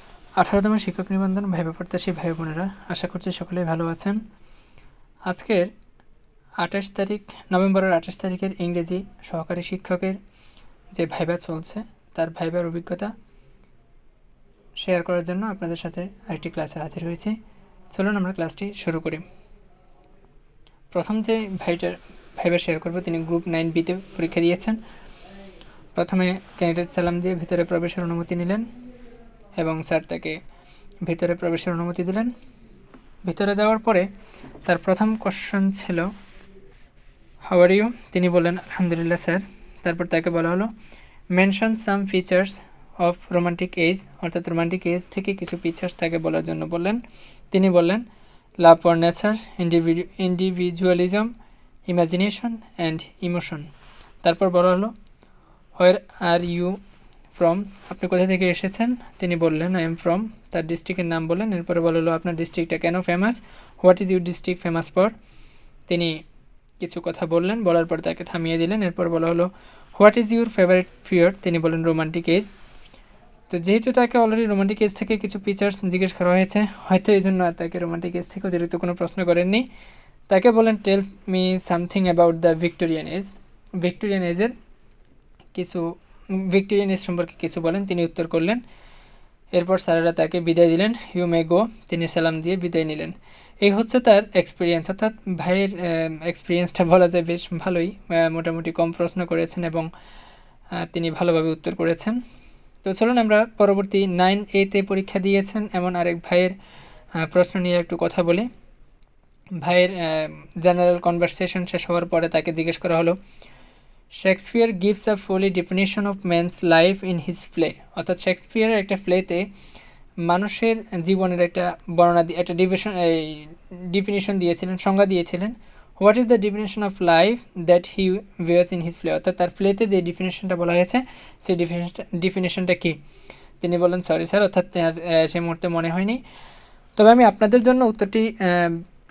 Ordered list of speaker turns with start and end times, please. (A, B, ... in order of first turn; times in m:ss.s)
0:00.4-0:04.2 A
0:05.3-0:05.7 A
0:06.6-0:10.2 A
0:10.9-0:13.1 A
0:14.8-0:17.4 A
0:17.9-0:19.2 A
0:20.9-0:24.8 A
0:26.0-0:28.6 A
0:29.6-0:30.4 A
0:31.0-0:32.3 A
0:33.2-0:34.1 A
0:34.6-0:36.1 A
0:37.5-0:40.7 A
0:41.3-0:48.0 A
0:48.6-0:51.3 A
0:51.9-0:53.7 A
0:54.2-0:54.9 A
0:55.8-0:56.8 A
0:57.4-1:05.1 A
1:05.9-1:06.2 A
1:06.8-1:12.5 A
1:13.5-1:19.6 A
1:20.3-1:24.5 A
1:25.5-1:28.6 A
1:29.5-1:39.9 A
1:40.8-1:42.2 A
1:42.8-1:46.5 A
1:47.2-1:48.5 A
1:49.6-1:53.2 A
1:54.2-1:59.4 A
2:00.2-2:13.0 A
2:13.6-2:16.2 A
2:17.0-2:18.8 A